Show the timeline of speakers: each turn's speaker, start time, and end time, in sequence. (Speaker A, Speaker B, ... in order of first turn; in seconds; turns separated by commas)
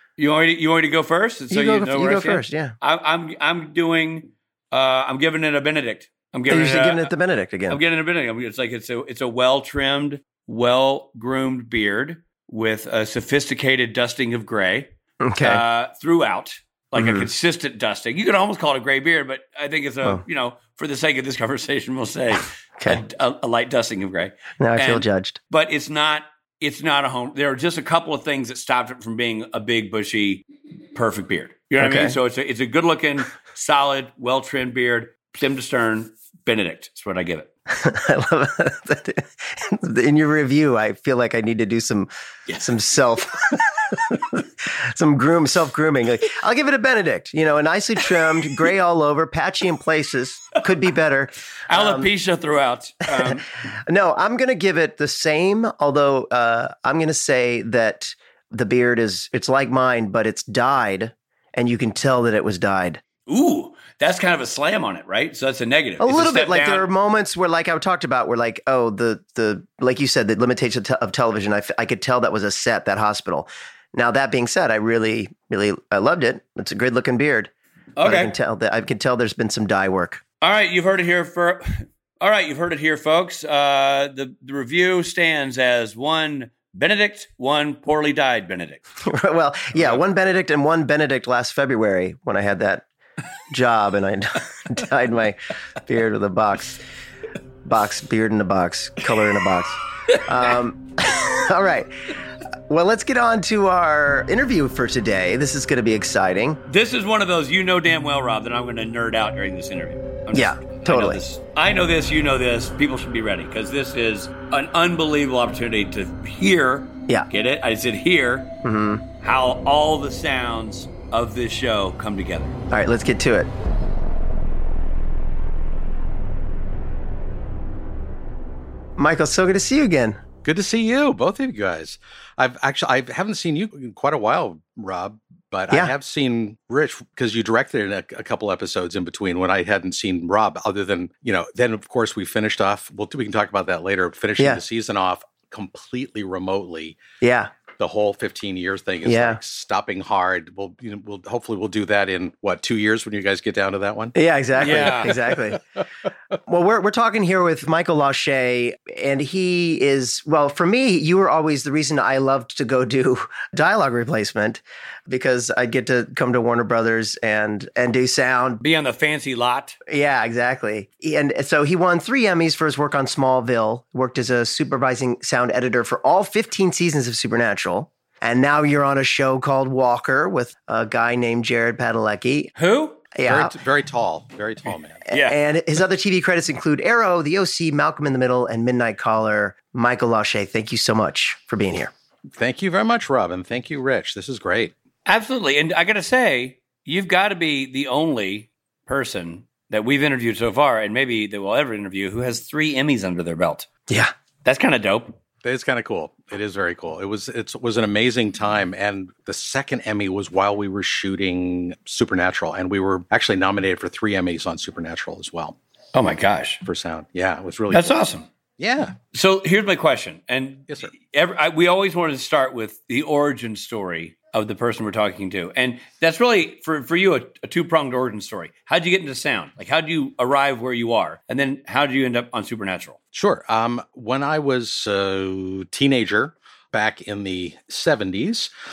Speaker A: 0.2-7.1, Speaker B: 1.5-2.8, Speaker B: 6.5-7.8, Speaker A: 7.7-37.5, Speaker B: 15.2-15.6, Speaker B: 17.0-17.3, Speaker B: 24.6-25.4, Speaker B: 31.8-32.2, Speaker B: 37.7-52.1, Speaker A: 51.7-53.4, Speaker B: 53.2-63.0, Speaker A: 63.3-66.9, Speaker B: 66.0-80.2, Speaker A: 78.0-78.3, Speaker A: 80.4-88.8, Speaker B: 89.0-92.8, Speaker B: 93.5-96.8, Speaker B: 97.6-101.9, Speaker B: 102.7-106.6, Speaker A: 106.7-118.5, Speaker B: 110.3-111.2, Speaker B: 118.6-119.0, Speaker A: 119.2-122.6, Speaker B: 122.7-123.5, Speaker B: 129.0-130.2, Speaker C: 130.4-147.0, Speaker B: 147.2-147.5, Speaker C: 147.8-154.2, Speaker B: 149.1-149.4, Speaker B: 154.2-155.6, Speaker A: 154.6-155.2, Speaker B: 156.5-168.6, Speaker A: 168.6-169.8, Speaker B: 169.9-182.5, Speaker A: 182.6-183.0, Speaker B: 183.2-183.5, Speaker C: 183.3-185.0, Speaker A: 185.1-185.4, Speaker B: 185.1-191.9, Speaker C: 192.4-194.7, Speaker A: 195.1-203.7, Speaker A: 204.4-205.2, Speaker C: 205.4-215.6, Speaker A: 215.9-216.6, Speaker C: 216.7-218.0, Speaker A: 217.7-218.3, Speaker C: 218.6-219.0, Speaker A: 219.1-233.0, Speaker C: 233.1-238.5